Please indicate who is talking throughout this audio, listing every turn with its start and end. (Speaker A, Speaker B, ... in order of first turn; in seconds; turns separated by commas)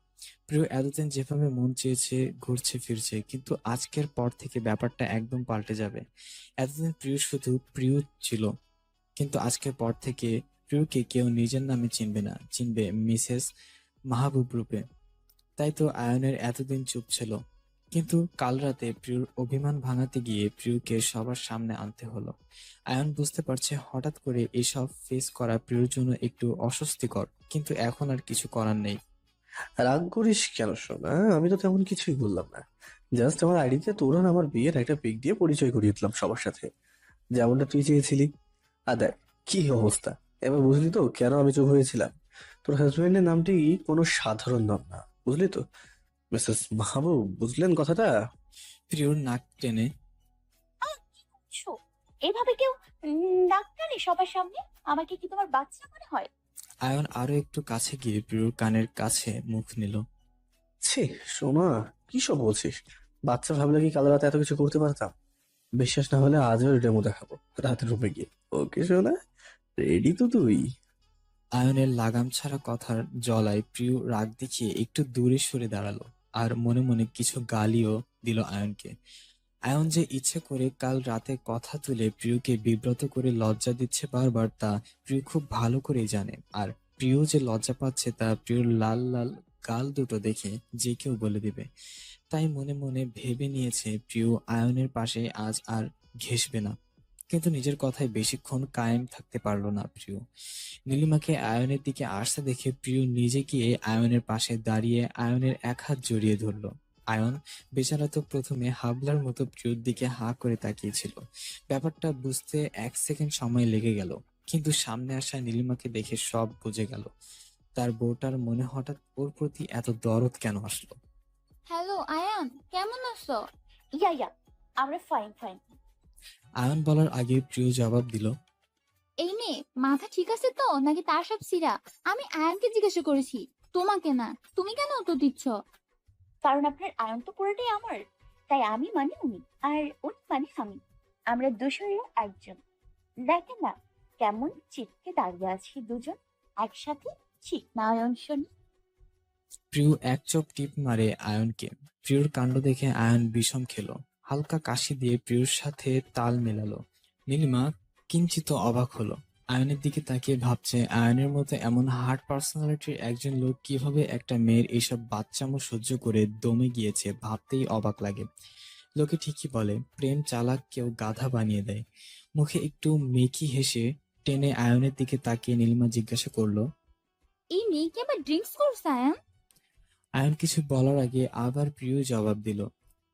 Speaker A: 0.5-6.0, Speaker A: 6.6-8.5, Speaker A: 9.2-13.5, Speaker A: 14.1-14.8, Speaker A: 15.6-17.4, Speaker A: 17.9-22.3, Speaker A: 22.9-29.0, Speaker B: 29.8-32.7, Speaker B: 33.2-36.7, Speaker B: 37.4-38.3, Speaker B: 38.9-42.1, Speaker B: 42.7-45.6, Speaker B: 46.3-48.1, Speaker A: 48.9-49.9, Speaker C: 50.8-51.7, Speaker C: 52.2-56.3, Speaker A: 56.9-60.0, Speaker B: 60.9-62.8, Speaker B: 63.3-65.1, Speaker B: 65.8-69.1, Speaker B: 69.8-70.6, Speaker A: 71.6-78.9, Speaker A: 79.7-91.7, Speaker A: 92.3-96.8, Speaker A: 97.3-100.2, Speaker A: 100.9-117.1, Speaker A: 117.8-121.0, Speaker D: 121.7-123.4, Speaker C: 124.0-124.3, Speaker C: 124.8-125.6, Speaker A: 126.6-128.3, Speaker D: 129.2-135.5, Speaker C: 136.4-138.0, Speaker C: 138.5-140.8, Speaker C: 141.3-142.6, Speaker C: 143.3-148.5, Speaker A: 149.7-156.8, Speaker A: 157.3-168.3, Speaker A: 169.0-171.8, Speaker A: 172.4-176.6, Speaker D: 177.6-179.2, Speaker A: 180.2-182.7